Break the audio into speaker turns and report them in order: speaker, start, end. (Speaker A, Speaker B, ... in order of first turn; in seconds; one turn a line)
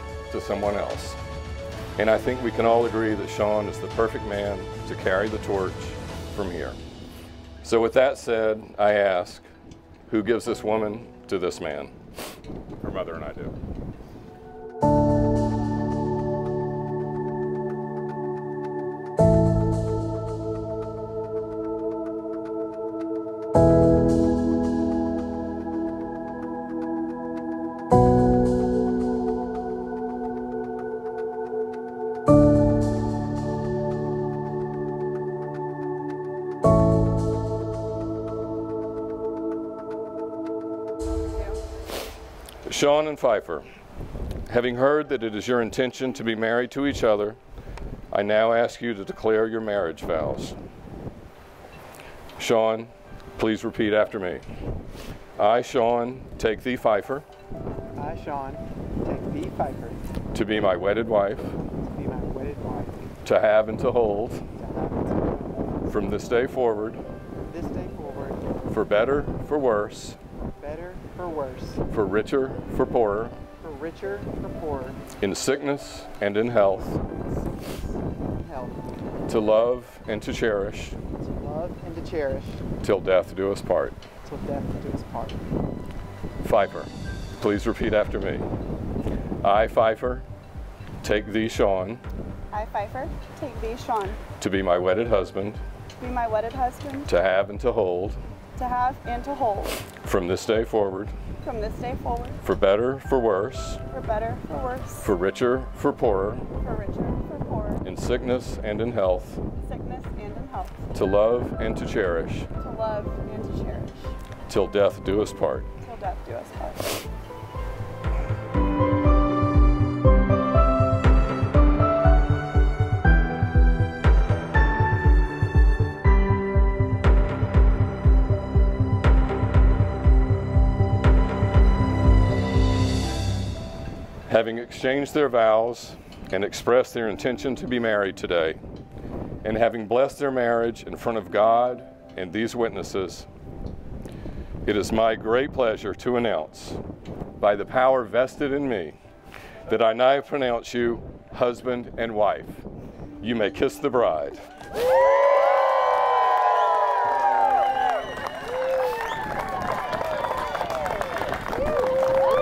Speaker A: 0.3-1.2
Speaker A: 2.0-6.8
Speaker A: 7.6-9.5
Speaker A: 10.1-11.9
Speaker A: 12.8-13.5
Speaker A: 42.7-43.6
Speaker A: 44.5-47.4
Speaker A: 48.1-50.6
Speaker A: 52.4-54.4
Speaker A: 55.4-57.2
Speaker B: 58.0-60.0
Speaker A: 60.3-61.6
Speaker B: 61.7-63.0
Speaker A: 63.2-64.4
Speaker B: 64.6-65.6
Speaker A: 65.9-67.0
Speaker B: 67.4-68.6
Speaker A: 68.7-70.2
Speaker B: 70.6-71.8
Speaker A: 71.9-73.3
Speaker B: 73.6-75.0
Speaker A: 75.2-77.0
Speaker B: 78.3-78.8
Speaker A: 79.3-81.0
Speaker B: 81.2-82.7
Speaker A: 82.8-84.0
Speaker B: 84.2-85.4
Speaker A: 86.4-88.5
Speaker A: 89.4-90.2
Speaker A: 91.0-92.0
Speaker C: 92.5-94.2
Speaker A: 94.3-95.6
Speaker C: 96.0-97.1
Speaker A: 97.1-98.2
Speaker C: 98.6-99.8
Speaker A: 99.8-101.1
Speaker C: 101.4-102.4
Speaker A: 102.4-103.9
Speaker C: 103.9-105.0
Speaker A: 105.0-106.5
Speaker C: 106.6-107.8
Speaker A: 107.8-109.4
Speaker C: 109.6-110.9
Speaker A: 110.9-112.5
Speaker C: 112.6-114.2
Speaker A: 114.5-115.7
Speaker C: 115.8-117.0
Speaker A: 134.3-138.6
Speaker A: 139.4-143.3
Speaker A: 144.7-146.8
Speaker A: 147.4-149.0
Speaker A: 149.7-152.7
Speaker A: 153.2-154.4